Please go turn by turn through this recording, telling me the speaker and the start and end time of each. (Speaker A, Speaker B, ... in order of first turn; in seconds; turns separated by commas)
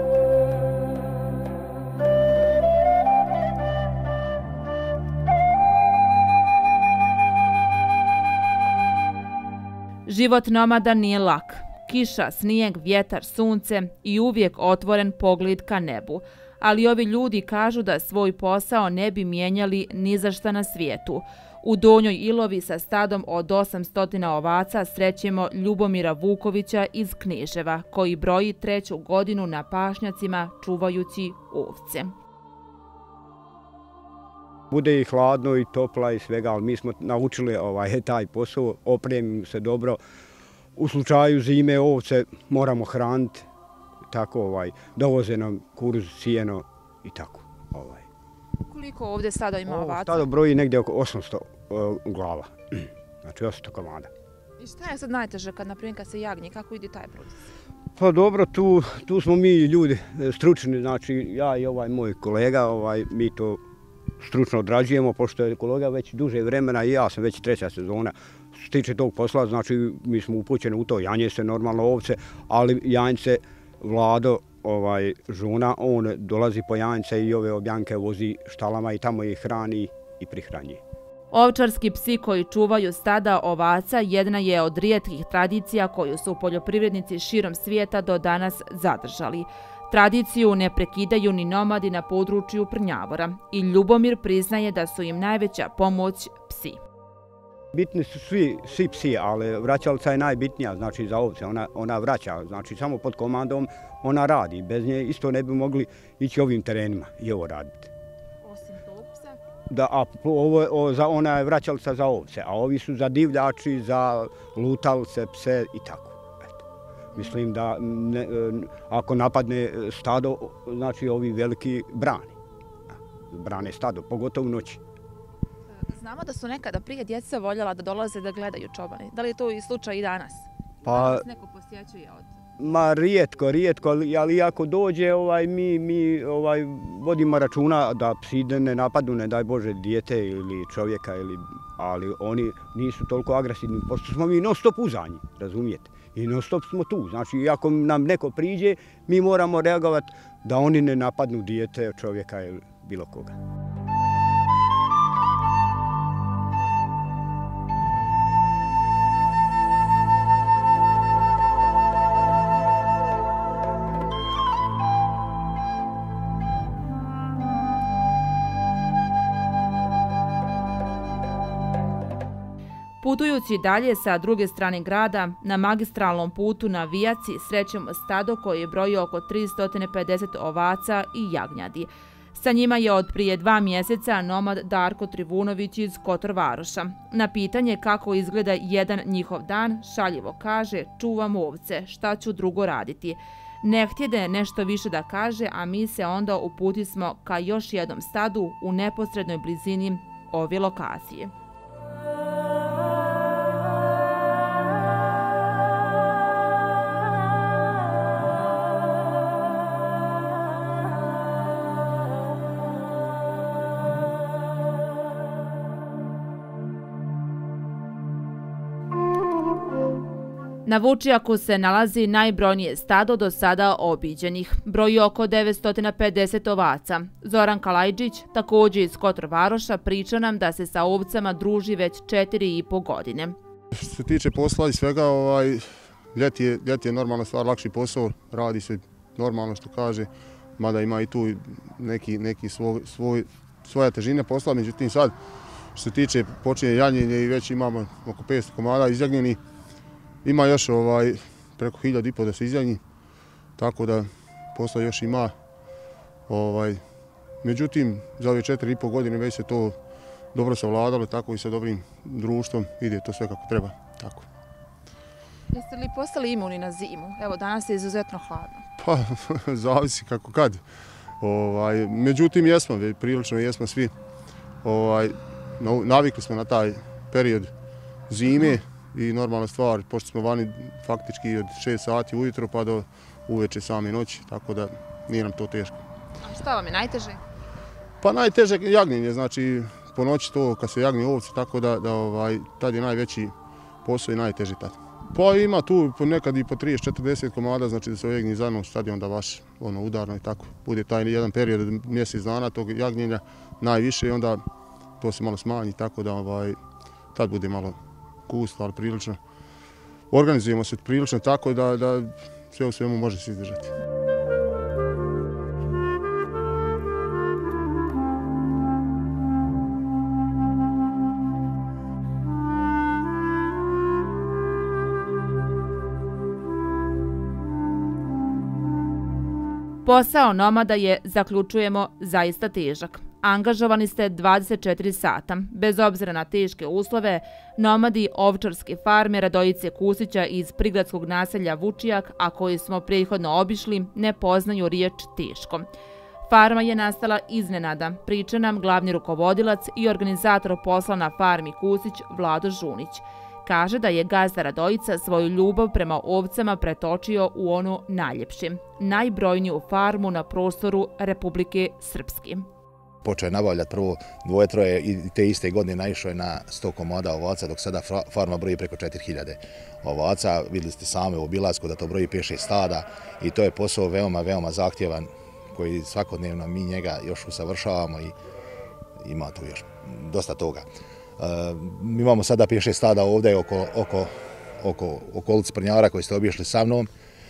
Speaker A: 10.1-32.1, Speaker B: 34.7-40.0, Speaker B: 40.8-43.5, Speaker B: 44.1-48.0, Speaker A: 48.7-50.3, Speaker B: 49.6-54.1, Speaker A: 54.6-57.3, Speaker B: 58.0-63.6, Speaker B: 64.2-80.8, Speaker A: 81.3-96.8, Speaker B: 97.7-107.9, Speaker A: 108.4-109.3, Speaker B: 109.7-116.6, Speaker B: 117.1-122.3, Speaker B: 123.3-124.8, Speaker A: 125.8-132.3, Speaker B: 130.8-131.2, Speaker B: 132.6-153.4, Speaker A: 173.0-201.3, Speaker A: 220.7-233.3, Speaker C: 233.7-245.2, Speaker C: 245.8-249.4, Speaker C: 250.2-252.8, Speaker C: 253.6-255.3, Speaker C: 256.3-256.8, Speaker C: 257.4-259.8, Speaker C: 260.3-264.3, Speaker A: 265.5-268.6, Speaker C: 268.8-270.6, Speaker C: 271.2-273.9, Speaker C: 274.6-277.5, Speaker C: 278.1-285.8, Speaker A: 286.2-287.2, Speaker C: 288.0-293.3, Speaker C: 293.8-304.4, Speaker C: 305.0-306.6, Speaker C: 307.1-309.2, Speaker C: 310.1-313.7, Speaker A: 329.8-345.7, Speaker A: 346.3-362.5, Speaker D: 363.0-378.1, Speaker D: 379.0-380.6, Speaker D: 381.2-386.9